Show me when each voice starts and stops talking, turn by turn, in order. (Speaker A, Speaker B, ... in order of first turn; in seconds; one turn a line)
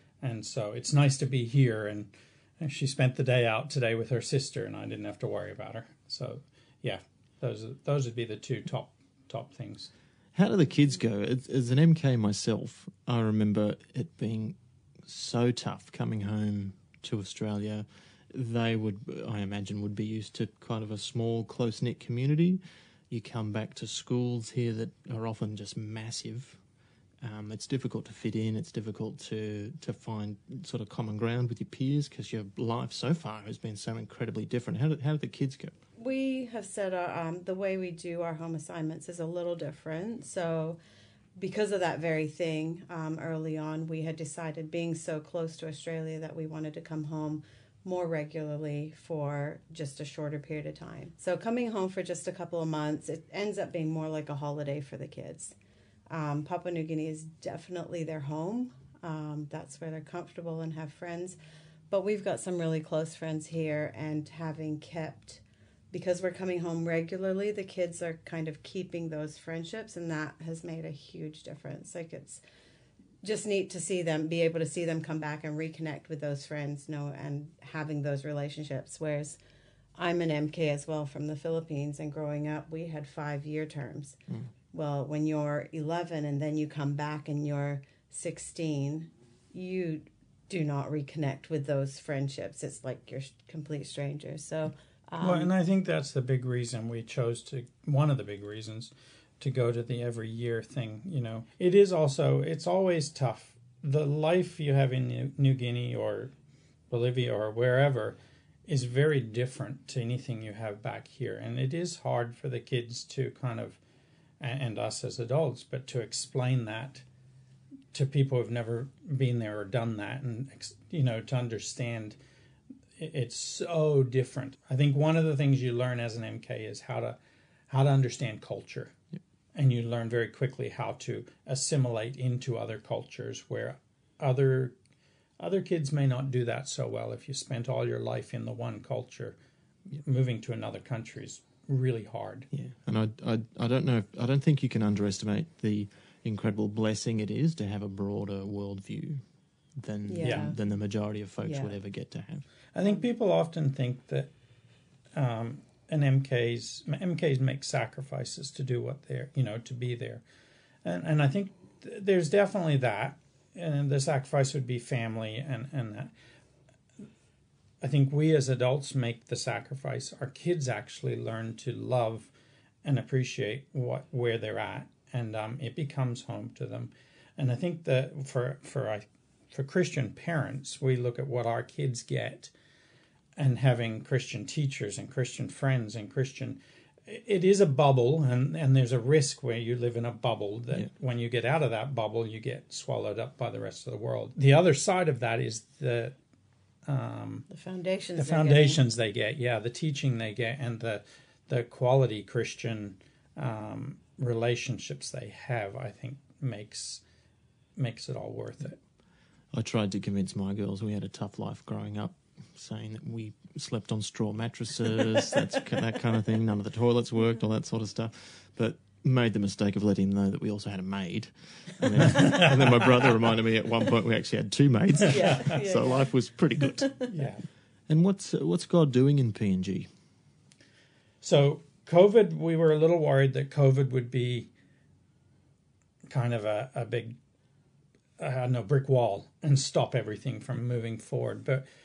Speaker A: 0.2-9.9
Speaker B: 10.3-26.6
Speaker B: 27.2-35.7
Speaker C: 36.0-40.8
Speaker C: 41.4-55.5
Speaker C: 56.1-61.4
Speaker C: 61.9-72.4
Speaker C: 73.2-79.4
Speaker C: 80.0-84.2
Speaker C: 84.7-95.5
Speaker A: 95.2-106.3
Speaker A: 106.9-113.8
Speaker A: 114.4-117.0
Speaker A: 117.9-122.2
Speaker A: 123.0-128.9
Speaker A: 129.5-134.7
Speaker A: 135.4-139.4
Speaker A: 139.9-142.5
Speaker B: 142.5-149.2
Speaker B: 149.8-152.4
Speaker C: 150.1-150.6
Speaker A: 150.2-150.5
Speaker C: 151.4-151.7
Speaker A: 152.7-154.3
Speaker A: 155.1-160.2
Speaker A: 160.8-166.1
Speaker A: 167.8-172.3
Speaker A: 172.8-182.5
Speaker A: 183.3-196.2
Speaker A: 196.8-197.5
Speaker C: 197.5-198.8
Speaker A: 198.1-207.0
Speaker A: 207.8-208.8
Speaker B: 209.5-226.9
Speaker C: 225.1-226.2
Speaker A: 225.2-225.5
Speaker C: 226.8-227.1
Speaker A: 227.1-227.4
Speaker B: 227.9-229.9
Speaker A: 231.2-234.5
Speaker A: 236.1-237.2
Speaker A: 238.2-241.7